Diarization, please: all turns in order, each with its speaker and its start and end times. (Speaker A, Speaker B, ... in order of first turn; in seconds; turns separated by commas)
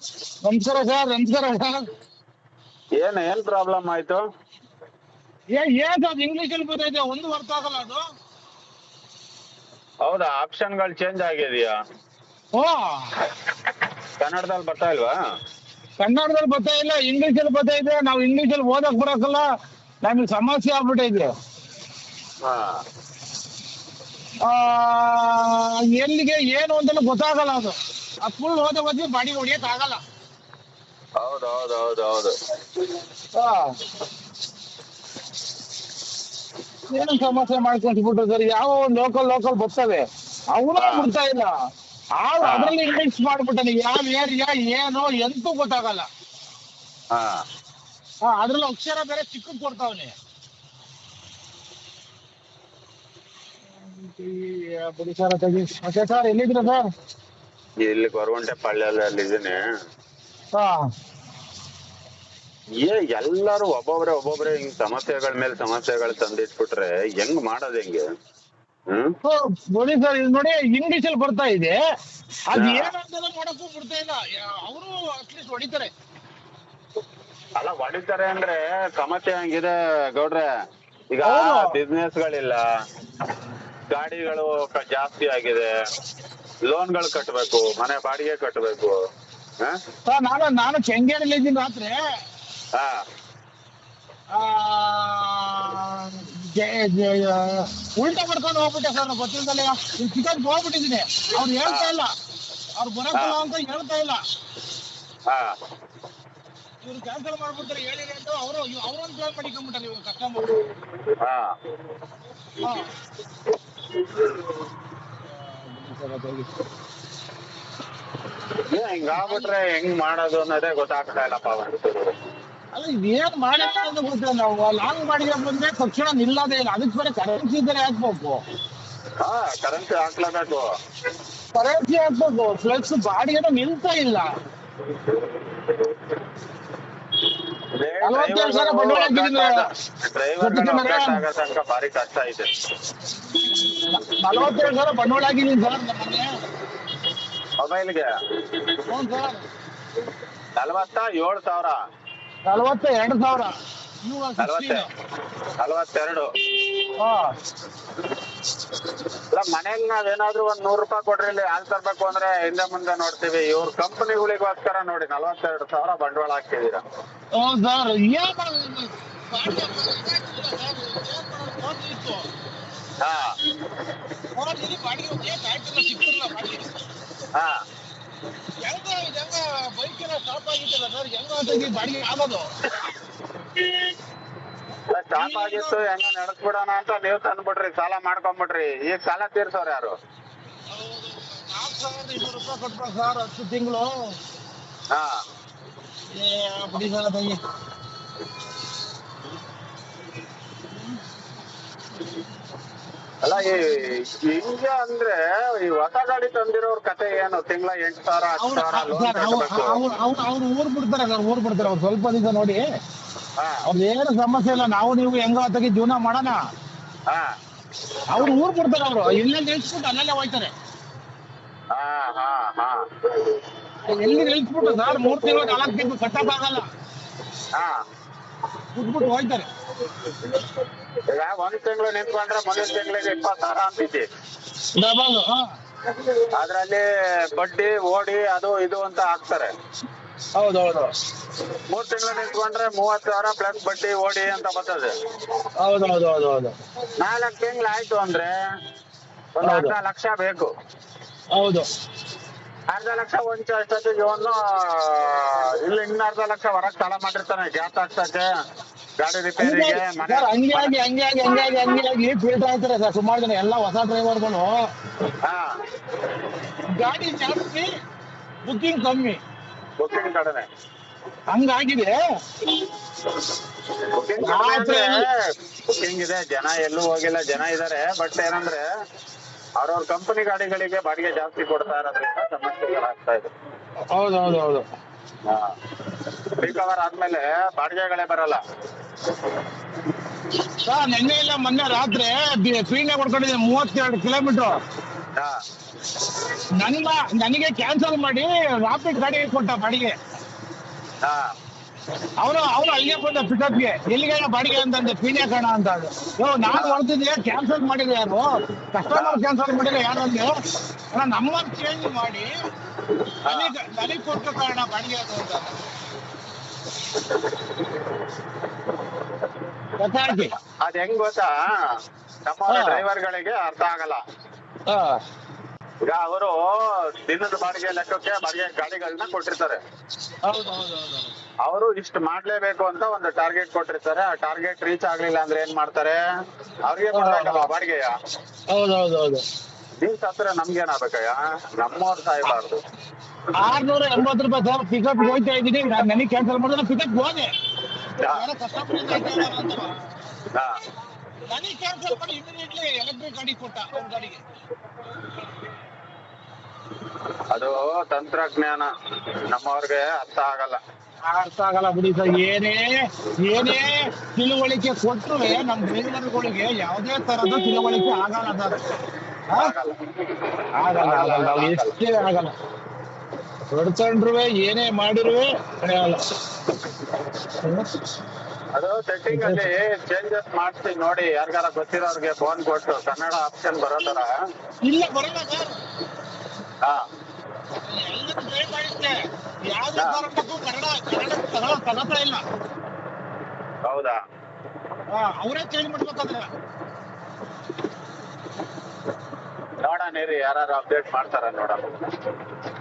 Speaker A: 0.4-1.8, Speaker B: 3.0-4.2, Speaker A: 5.5-8.0, Speaker B: 10.0-11.7, Speaker A: 12.5-13.2, Speaker B: 14.2-15.1, Speaker A: 16.0-19.4, Speaker A: 20.0-21.3, Speaker B: 22.4-22.8, Speaker A: 24.4-30.0, Speaker B: 31.2-32.3, Speaker A: 33.3-33.7, Speaker A: 36.9-41.5, Speaker B: 40.8-41.1, Speaker A: 42.2-46.1, Speaker B: 42.4-42.7, Speaker B: 47.1-47.4, Speaker A: 48.2-50.1, Speaker A: 53.8-56.9, Speaker B: 57.8-59.6, Speaker A: 60.5-60.9, Speaker B: 62.8-68.0, Speaker B: 68.9-69.2, Speaker A: 69.2-71.8, Speaker A: 72.5-75.9, Speaker B: 72.5-72.9, Speaker B: 77.6-80.5, Speaker B: 81.1-82.6, Speaker A: 81.2-81.8, Speaker B: 83.9-85.7, Speaker B: 86.7-88.9, Speaker A: 90.0-92.0, Speaker B: 92.7-93.0, Speaker A: 94.3-102.1, Speaker B: 101.6-101.9, Speaker A: 102.8-104.2, Speaker B: 105.3-105.5, Speaker A: 106.8-110.7, Speaker B: 111.2-111.5, Speaker A: 112.6-112.9, Speaker A: 115.3-116.5, Speaker B: 118.7-122.1, Speaker A: 119.2-119.5, Speaker A: 122.7-128.4, Speaker B: 129.2-130.7, Speaker A: 131.5-134.3, Speaker B: 137.8-142.5, Speaker A: 138.0-139.6, Speaker A: 140.4-141.2, Speaker A: 143.5-146.3, Speaker B: 147.6-148.1, Speaker A: 148.9-149.4, Speaker B: 150.6-151.8, Speaker A: 152.5-154.9, Speaker B: 154.4-154.8, Speaker B: 155.6-156.3, Speaker A: 157.0-157.3, Speaker B: 159.3-166.8, Speaker A: 167.4-172.3, Speaker B: 173.0-173.3, Speaker A: 174.3-176.6, Speaker A: 178.6-182.5, Speaker B: 184.9-189.9, Speaker A: 185.2-185.8, Speaker A: 190.7-194.2, Speaker A: 196.1-197.4, Speaker B: 203.2-209.8, Speaker A: 208.4-212.6, Speaker A: 213.7-216.4, Speaker A: 218.1-220.5, Speaker B: 221.7-223.4, Speaker A: 223.8-226.7, Speaker A: 228.7-229.4, Speaker B: 231.1-234.1, Speaker A: 234.7-235.4, Speaker B: 236.1-239.5, Speaker A: 240.3-240.9, Speaker B: 241.7-244.9, Speaker A: 245.6-246.5, Speaker B: 247.0-248.3, Speaker B: 249.3-250.5, Speaker A: 249.4-249.7, Speaker A: 251.3-251.7, Speaker B: 252.7-258.3, Speaker B: 259.0-260.8, Speaker A: 259.4-264.5, Speaker A: 266.8-267.6, Speaker A: 268.4-269.2, Speaker B: 269.8-270.4, Speaker A: 271.3-271.9, Speaker B: 273.9-275.1, Speaker A: 274.2-275.0, Speaker B: 275.7-278.6, Speaker B: 279.6-283.3, Speaker A: 283.9-284.6, Speaker B: 285.2-285.5, Speaker B: 286.4-288.4, Speaker A: 290.6-294.5, Speaker A: 296.6-299.9, Speaker A: 302.2-310.3, Speaker B: 306.5-306.8, Speaker B: 308.9-309.2, Speaker A: 310.9-312.3, Speaker B: 313.2-313.5, Speaker A: 313.2-315.5, Speaker A: 319.8-320.3, Speaker B: 320.1-321.5, Speaker B: 322.2-324.0, Speaker A: 322.5-322.8, Speaker A: 324.7-325.0, Speaker B: 325.8-329.6, Speaker A: 330.2-331.1, Speaker B: 331.4-336.0, Speaker B: 336.6-337.9, Speaker A: 336.9-337.5, Speaker A: 338.5-339.2, Speaker B: 339.8-342.6, Speaker A: 343.4-347.3, Speaker B: 348.0-348.2, Speaker A: 348.0-349.7, Speaker A: 351.3-354.2, Speaker B: 357.3-358.7, Speaker B: 359.3-360.6, Speaker A: 361.1-362.7, Speaker A: 363.2-368.6, Speaker B: 369.4-369.9, Speaker A: 370.6-372.3, Speaker B: 370.7-371.8, Speaker A: 373.5-376.0, Speaker A: 377.4-377.7, Speaker B: 378.5-384.1, Speaker A: 379.1-379.5, Speaker A: 384.6-385.5, Speaker A: 387.6-388.9, Speaker A: 389.5-392.2, Speaker B: 389.8-390.0, Speaker B: 393.7-394.0, Speaker A: 394.9-396.3, Speaker B: 399.6-401.7